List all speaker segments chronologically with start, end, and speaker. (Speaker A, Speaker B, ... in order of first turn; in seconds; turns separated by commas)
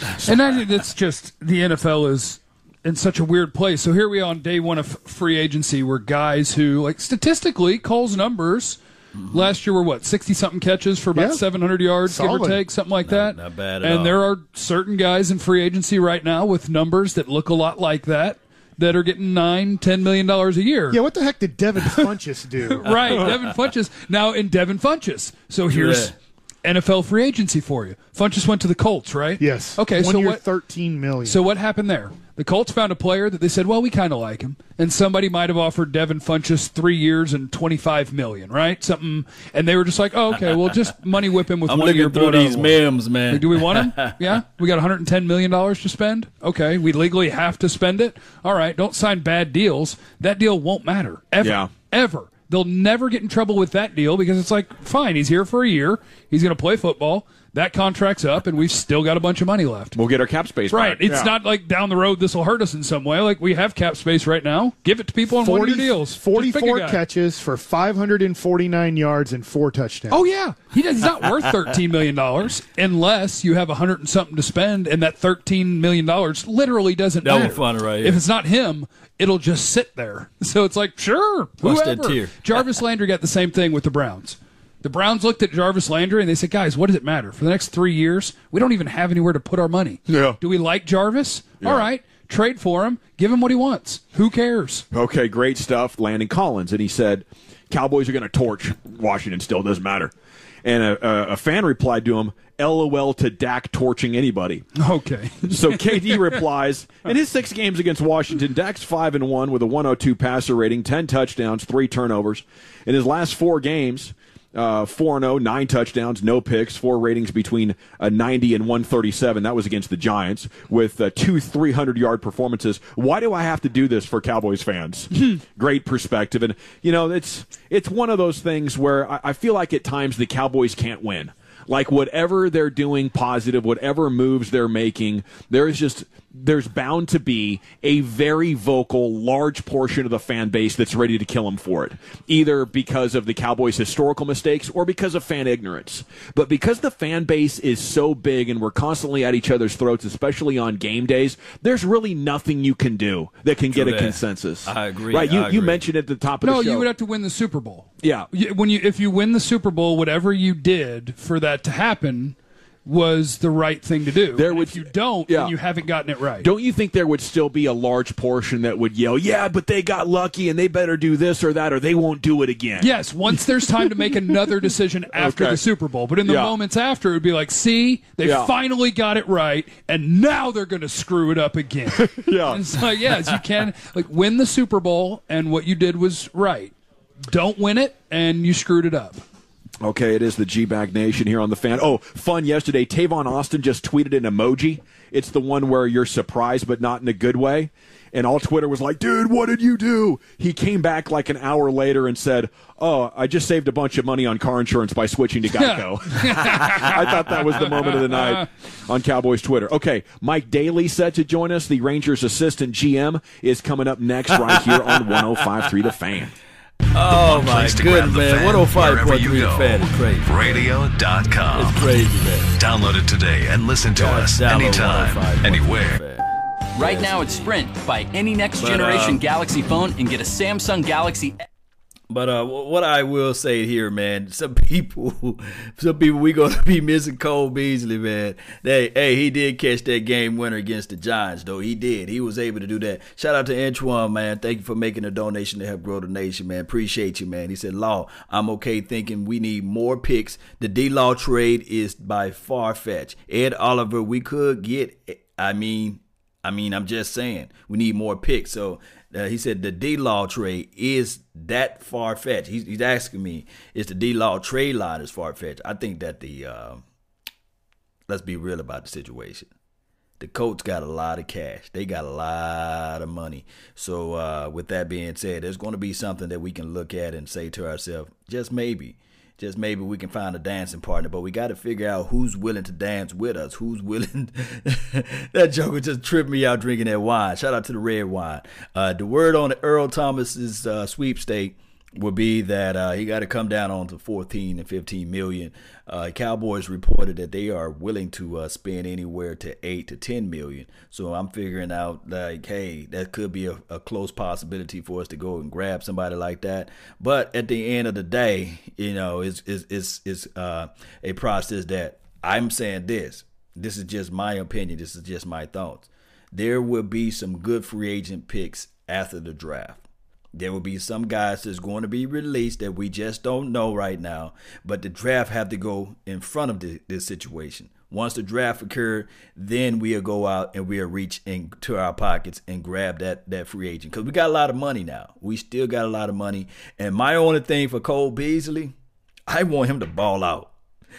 Speaker A: 0.2-21.0, Speaker B: 9.2-9.5, Speaker C: 11.1-11.4, Speaker C: 12.1-12.6, Speaker B: 13.0-14.2, Speaker C: 20.9-22.9, Speaker A: 22.7-30.4, Speaker B: 22.8-23.6, Speaker B: 25.7-26.1, Speaker C: 29.4-31.4, Speaker A: 31.2-60.0, Speaker B: 41.6-44.4, Speaker D: 51.4-51.7, Speaker D: 59.9-61.3, Speaker A: 60.7-67.0, Speaker C: 65.4-70.2, Speaker A: 70.1-94.8, Speaker B: 77.2-78.2, Speaker B: 81.6-82.4, Speaker D: 90.1-90.4, Speaker D: 91.6-91.9, Speaker D: 94.9-100.1, Speaker D: 100.6-104.7, Speaker A: 104.8-106.4, Speaker D: 105.4-156.9, Speaker B: 153.7-155.8, Speaker A: 156.4-166.5, Speaker D: 158.0-158.3, Speaker D: 164.3-165.5, Speaker D: 166.4-174.5, Speaker A: 172.8-186.7, Speaker D: 175.1-175.6, Speaker D: 176.2-176.5, Speaker D: 178.2-178.5, Speaker D: 181.9-182.7, Speaker A: 187.2-189.2, Speaker D: 189.8-216.3, Speaker A: 205.6-208.4, Speaker B: 214.6-215.2, Speaker B: 216.9-220.8, Speaker E: 217.1-222.0, Speaker B: 221.5-222.6, Speaker E: 222.5-225.9, Speaker D: 223.8-224.2, Speaker B: 223.9-227.5, Speaker F: 226.8-231.4, Speaker B: 228.6-229.2, Speaker B: 232.1-266.8, Speaker B: 268.1-269.5, Speaker B: 270.2-338.7, Speaker B: 339.3-340.5